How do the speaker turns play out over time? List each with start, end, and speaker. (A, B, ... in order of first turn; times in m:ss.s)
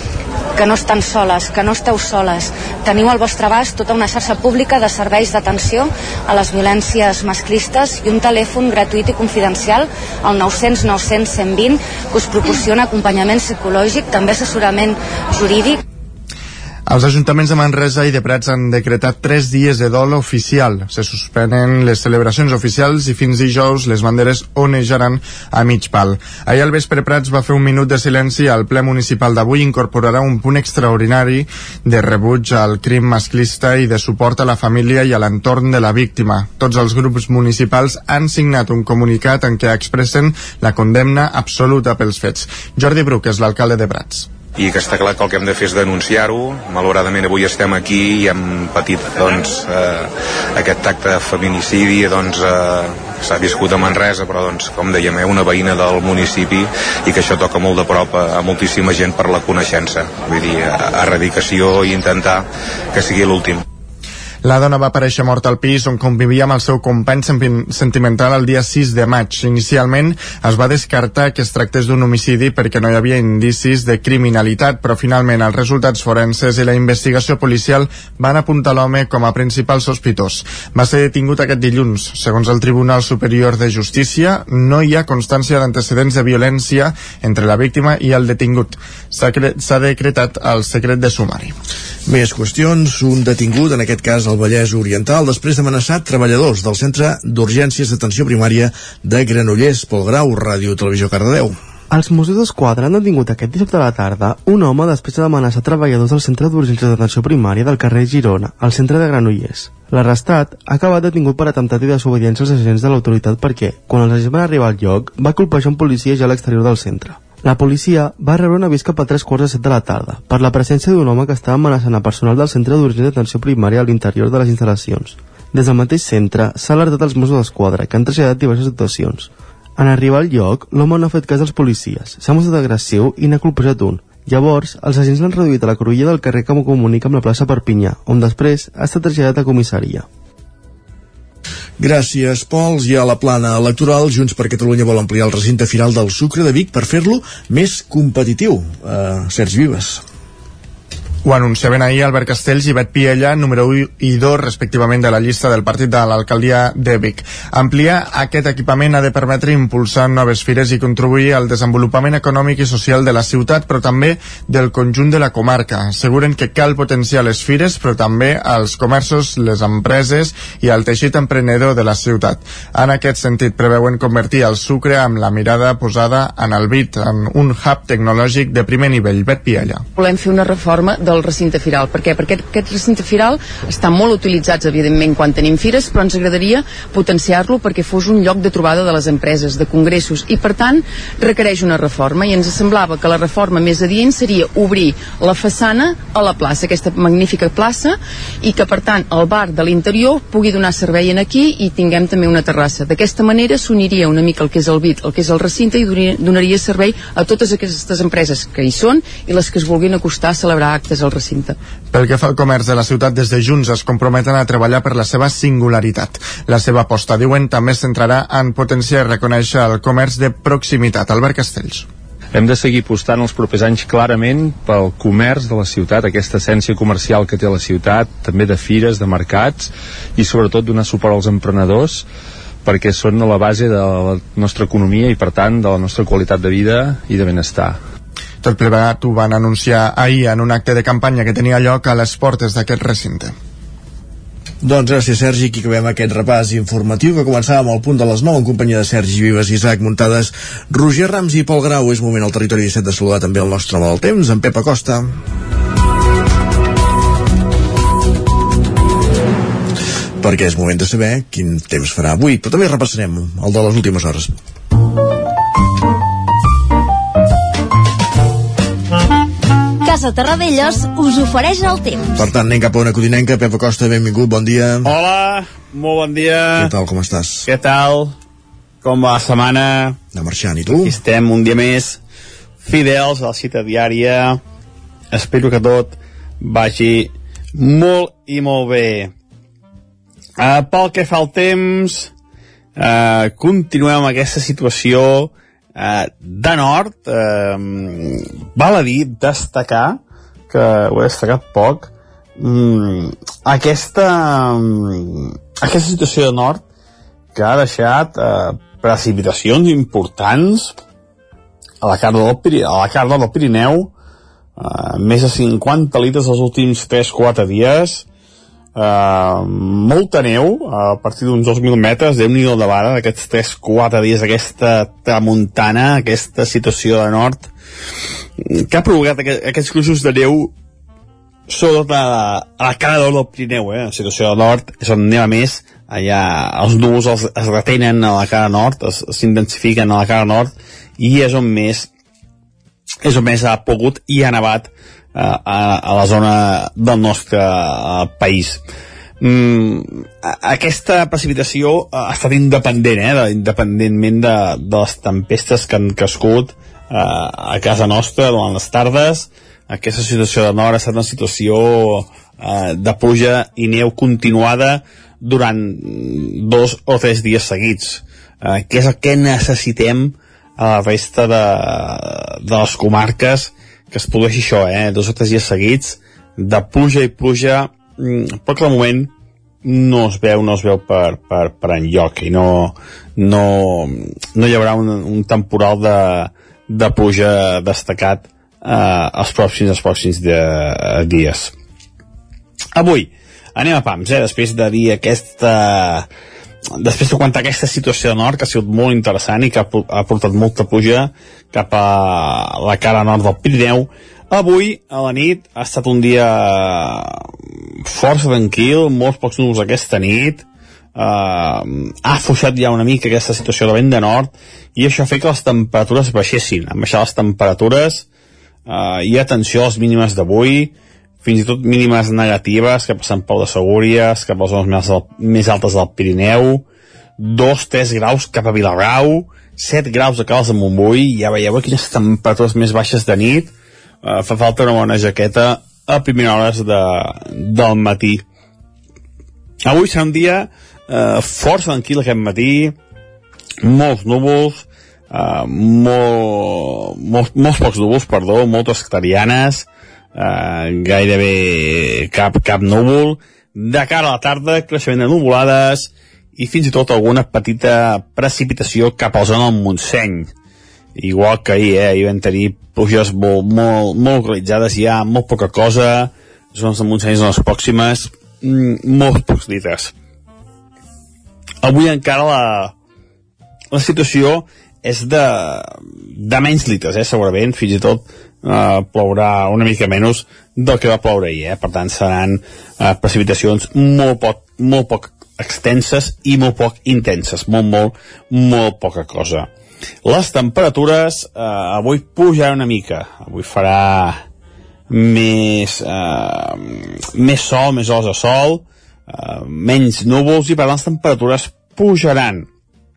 0:00.6-0:15.8 A
0:16.9-0:44.3 B
0:44.6-1:03.6 C
1:04.4-1:31.6 B
1:32.1-1:41.6 D
1:41.9-2:20.1 E
2:21.8-2:30.0 D
2:31.2-2:59.9 B
3:00.0-3:31.6 F
3:31.9-3:41.9 B
3:42.3-3:52.1 G
3:52.6-3:57.8 G
3:58.4-4:03.3 B
4:04.6-4:15.1 D
4:20.2-4:24.3 D
4:29.8-4:32.2 H
4:32.2-4:34.9 D
4:34.8-4:36.7 I
4:36.6-4:37.5 D
4:37.5-4:38.1 I
4:38.8-4:40.0 I
4:40.1-4:41.0 D
4:40.8-4:42.0 I
4:42.6-4:44.4 I
4:45.1-4:49.1 I
4:50.4-4:52.1 I
4:52.8-5:00.0 I
5:00.5-5:06.6 I
5:07.4-5:10.8 I
5:11.8-5:13.9 I
5:14.6-5:18.0 I
5:18.8-5:27.5 I
5:28.4-5:30.5 I
5:31.5-5:41.9 I
5:43.0-5:48.6 I
5:49.2-6:19.1 I
6:19.6-6:31.5 I
6:32.8-6:36.1 I
6:36.8-6:47.3 I
6:47.8-6:50.4 I
6:51.0-6:58.0 I
6:58.7-7:06.6 I
7:07.2-7:13.5 I
7:14.0-7:18.2 I
7:19.6-7:22.8 I
7:23.6-7:40.3 I
7:41.0-7:49.9 I
7:51.6-7:52.7 I
7:53.7-8:09.5 I
8:10.0-8:14.2 I
8:14.9-8:22.5 I